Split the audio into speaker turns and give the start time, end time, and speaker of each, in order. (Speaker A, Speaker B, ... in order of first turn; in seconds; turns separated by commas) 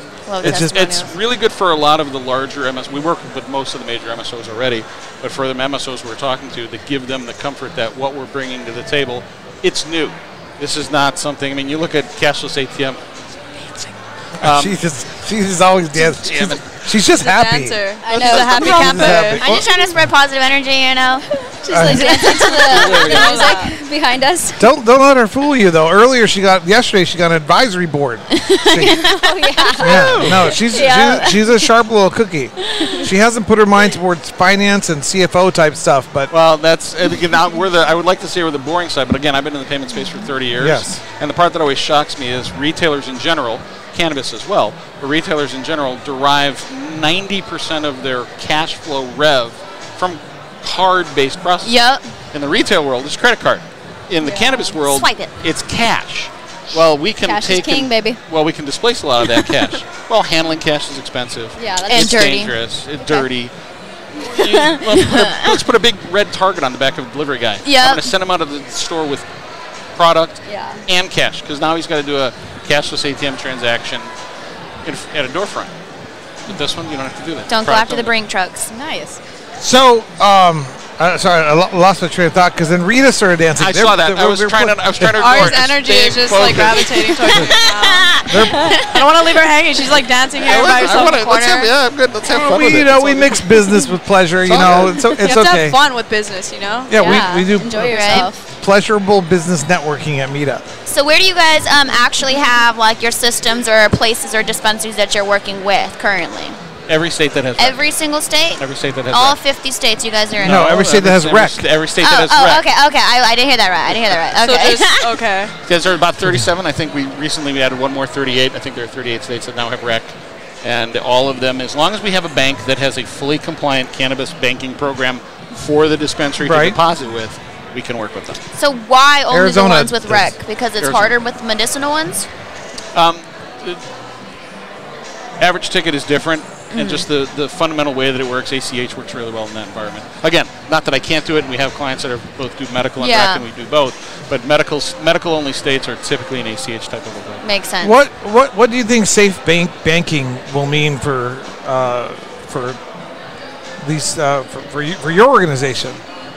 Speaker A: 0.3-1.1, Speaker B: 0.4-0.8, Speaker C: 0.4-13.0, Speaker C: 13.5-14.8, Speaker B: 14.4-19.8, Speaker C: 16.0-16.6, Speaker D: 17.1-19.6, Speaker E: 18.0-19.2, Speaker C: 18.1-19.1, Speaker A: 19.4-21.2, Speaker E: 21.6-24.7, Speaker B: 21.7-22.2, Speaker A: 21.9-23.2, Speaker C: 22.6-23.6, Speaker D: 22.9-23.7, Speaker B: 24.6-29.0, Speaker A: 28.4-31.6, Speaker E: 28.8-30.3, Speaker B: 29.8-36.3, Speaker C: 30.1-30.6, Speaker C: 36.3-51.8, Speaker B: 40.6-41.0, Speaker A: 51.6-52.0, Speaker C: 52.3-63.5, Speaker E: 54.2-54.8, Speaker A: 54.8-55.3, Speaker E: 57.2-58.2, Speaker E: 61.6-62.5, Speaker A: 61.9-62.5, Speaker E: 63.0-63.3, Speaker C: 64.1-69.3, Speaker A: 64.5-65.6, Speaker A: 67.6-68.1, Speaker C: 70.0-74.1, Speaker E: 70.5-70.8, Speaker C: 74.8-75.7, Speaker C: 76.5-78.2, Speaker A: 77.5-78.7, Speaker E: 78.7-79.2, Speaker B: 79.6-85.6, Speaker C: 83.6-87.5, Speaker D: 85.2-91.6, Speaker A: 87.1-88.9, Speaker B: 88.3-88.8, Speaker C: 90.4-93.6, Speaker A: 90.5-91.7, Speaker B: 92.2-95.8, Speaker C: 94.4-95.2, Speaker D: 95.1-97.1, Speaker B: 96.9-100.7, Speaker E: 96.9-98.4, Speaker A: 97.8-98.3, Speaker A: 100.9-106.6, Speaker C: 106.9-107.9, Speaker A: 107.6-110.8, Speaker C: 108.6-109.4, Speaker C: 110.4-112.7, Speaker B: 110.4-111.7, Speaker A: 112.0-115.1, Speaker D: 114.4-115.5, Speaker C: 115.7-128.4, Speaker B: 126.4-126.8, Speaker A: 128.5-132.3, Speaker B: 129.3-130.4, Speaker C: 130.8-131.2, Speaker C: 132.9-133.8, Speaker C: 135.4-147.5, Speaker A: 136.7-137.1, Speaker A: 143.0-143.4, Speaker A: 147.4-147.9, Speaker B: 147.8-152.8, Speaker B: 153.8-156.0